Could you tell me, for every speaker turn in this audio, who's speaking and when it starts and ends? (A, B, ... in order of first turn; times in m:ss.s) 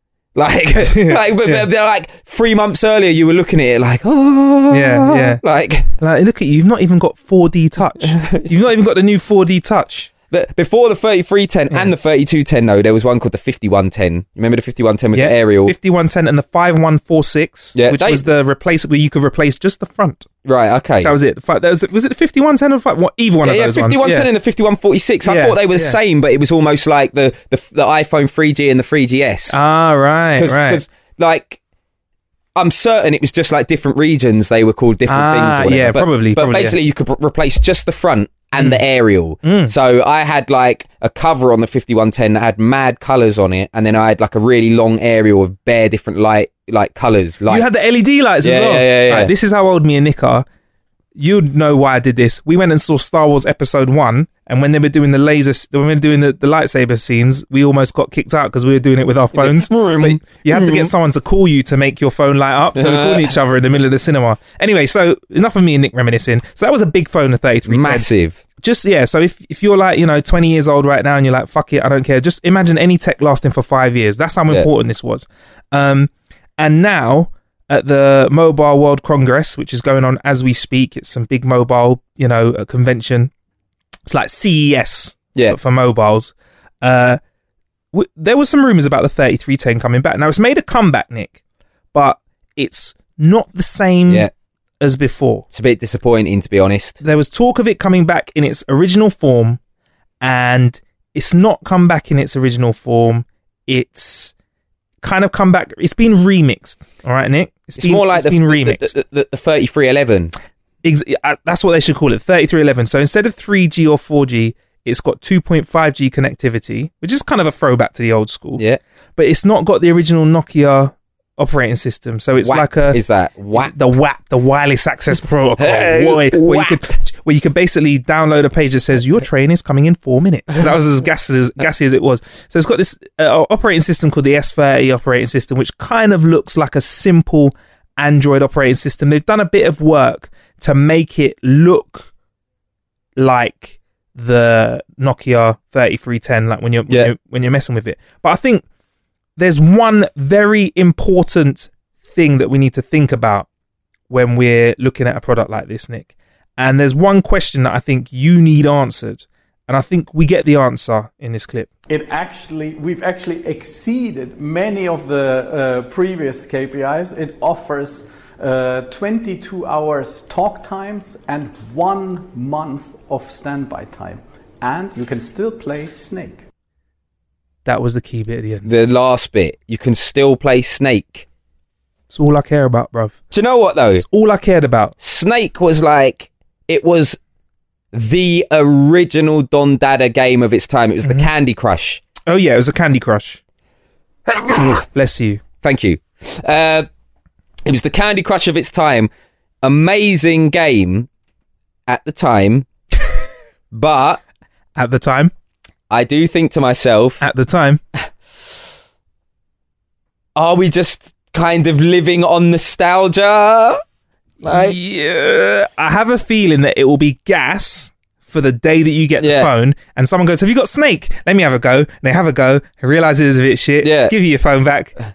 0:00.3-0:05.9 A
0:00.8-0:01.6 B
0:04.7-0:05.4 B
0:06.0-0:10.1 B
0:08.0-0:08.6 A
0:10.3-0:15.8 A
0:15.1-0:20.3 B
0:17.8-0:18.2 A
0:20.4-0:21.1 A
0:21.0-0:24.3 B
0:23.4-0:29.6 A
0:25.2-0:26.0 B
0:29.5-0:30.8 B
0:30.4-0:31.6 A
0:32.6-0:47.9 A
0:35.1-0:36.8 B
0:38.6-0:38.8 B
0:39.4-0:39.7 B
0:47.5-0:50.4 B
0:48.4-0:49.3 A
0:51.2-1:08.1 B
0:59.3-1:00.9 A
1:02.8-1:03.4 A
1:07.7-1:08.4 A
1:08.6-1:23.3 B
1:24.1-1:27.2 B
1:27.9-1:31.4 B
1:31.9-1:34.3 B
1:34.8-1:35.4 B
1:35.5-1:37.0 A
1:37.0-1:39.6 B
1:40.2-1:44.3 B
1:45.0-1:48.9 B
1:47.8-1:50.3 A
1:50.8-1:58.6 B
1:59.2-2:03.0 B
2:02.4-2:03.7 A
2:03.6-2:22.1 B
2:05.6-2:07.0 A
2:23.2-2:28.6 B
2:29.4-2:33.5 B
2:34.1-2:41.7 B
2:41.9-2:56.4 C
2:57.6-2:58.7 B
2:58.6-3:01.2 A
3:02.1-3:03.2 B
3:03.3-3:04.0 A
3:04.0-3:04.9 B
3:05.0-3:07.2 A
3:07.9-3:12.0 A
3:12.2-3:13.4 B
3:14.3-3:14.8 A
3:14.9-3:15.4 B
3:15.6-3:16.9 A
3:17.6-3:19.1 A
3:19.6-3:21.1 A
3:21.9-3:22.7 A
3:23.7-3:24.2 A
3:24.8-3:25.3 B
3:25.9-3:27.2 A
3:27.2-3:27.8 B
3:30.3-3:33.8 A
3:34.4-3:34.8 A
3:34.4-3:45.0 B
3:39.2-3:39.5 A
3:43.8-3:44.2 A